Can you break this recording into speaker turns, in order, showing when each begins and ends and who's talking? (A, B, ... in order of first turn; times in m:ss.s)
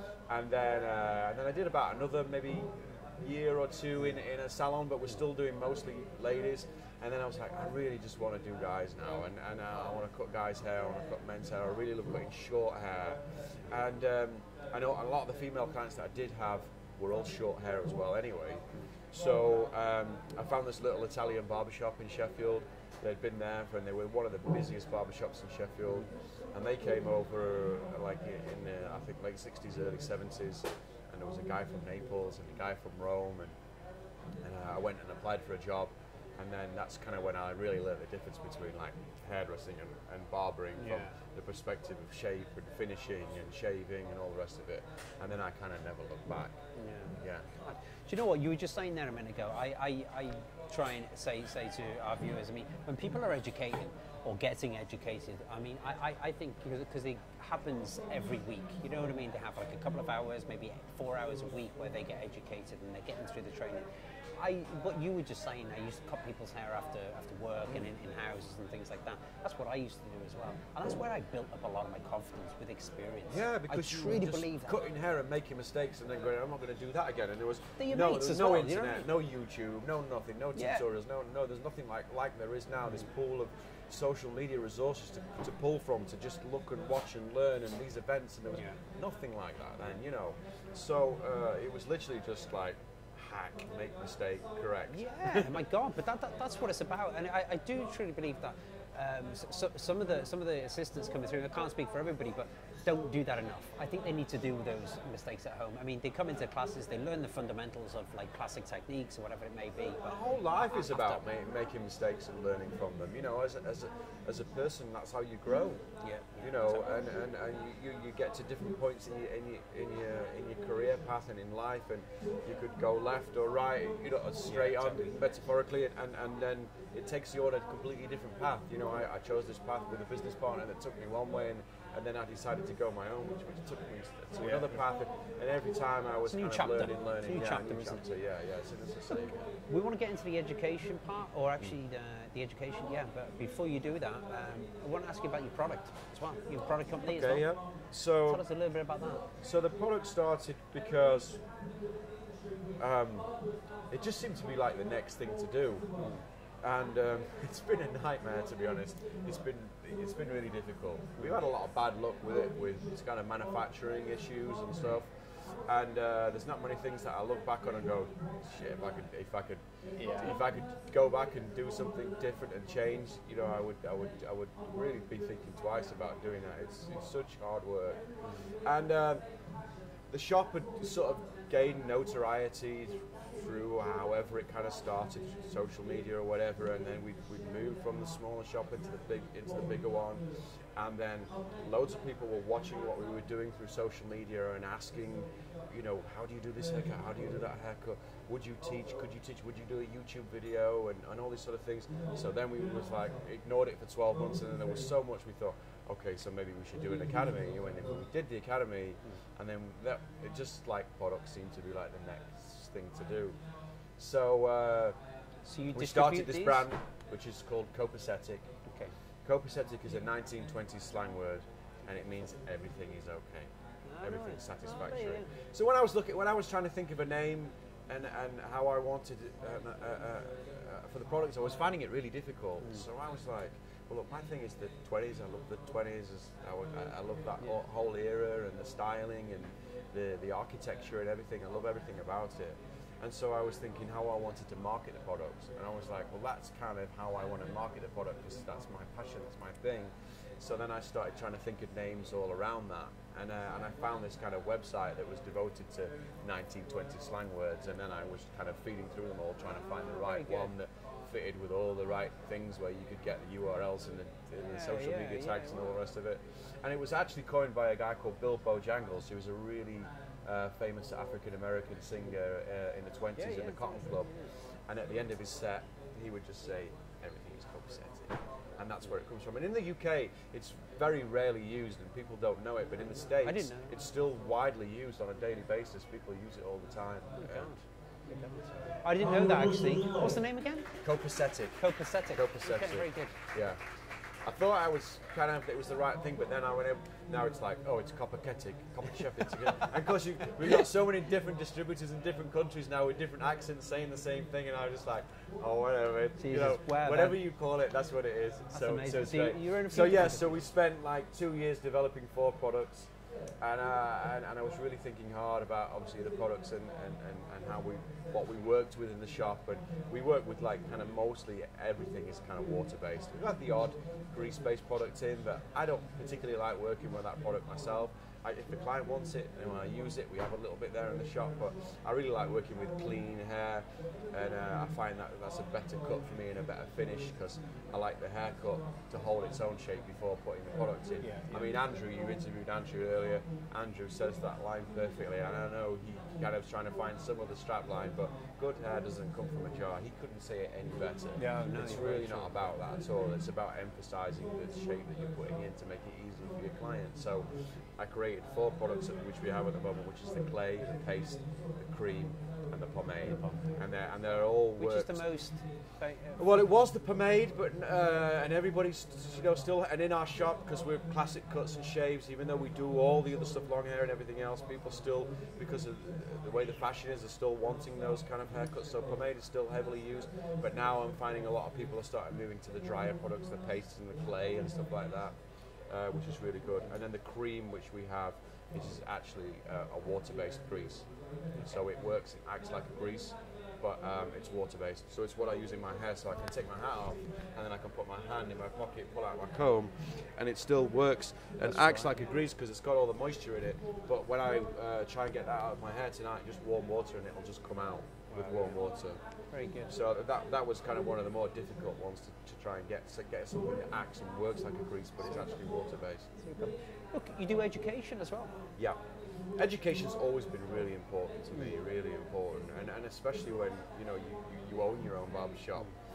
0:00.3-0:33.6 A
0:34.4-0:46.6 A
0:40.8-0:41.2 B
0:46.8-1:14.8 B
0:47.1-0:47.5 A
1:13.3-1:35.7 A
1:17.8-1:19.1 B
1:20.6-1:20.8 B
1:34.9-1:51.3 B
1:50.0-1:55.8 A
1:56.0-1:57.0 B
1:56.4-2:19.5 A
2:04.4-2:05.2 B
2:14.4-2:14.8 B
2:16.2-2:18.0 B
2:19.1-2:27.5 B
2:27.0-2:28.4 A
2:28.2-2:29.2 B
2:29.4-2:31.4 A
2:32.8-2:35.9 A
2:36.0-2:36.2 B
2:36.6-2:45.1 A
2:45.6-2:59.2 A
2:50.0-2:50.4 B
3:00.1-3:33.4 A
3:34.0-3:35.0 A
3:35.4-3:36.7 B
3:35.7-3:38.5 A
3:38.7-3:39.0 B
3:39.2-3:43.5 A
3:43.9-3:45.3 B
3:44.0-4:47.5 A
4:20.0-4:20.5 B
4:24.4-4:25.7 B
4:33.2-4:34.3 B
4:43.2-4:43.7 B
4:47.2-4:50.7 B
4:50.8-4:53.6 A
4:51.6-4:53.2 B
4:54.2-6:05.1 A
5:06.2-5:07.2 B
5:08.5-5:10.4 B
5:41.0-5:41.5 B
5:51.2-5:52.4 B
6:04.6-6:06.4 B
6:06.2-6:25.2 A
6:25.7-6:30.9 A
6:31.4-6:31.6 B
6:31.4-6:49.0 A
6:41.4-6:42.1 B
6:48.1-6:48.6 B
6:49.3-6:49.8 B
6:49.6-6:56.1 A
6:56.2-6:58.4 B
6:59.4-7:05.8 A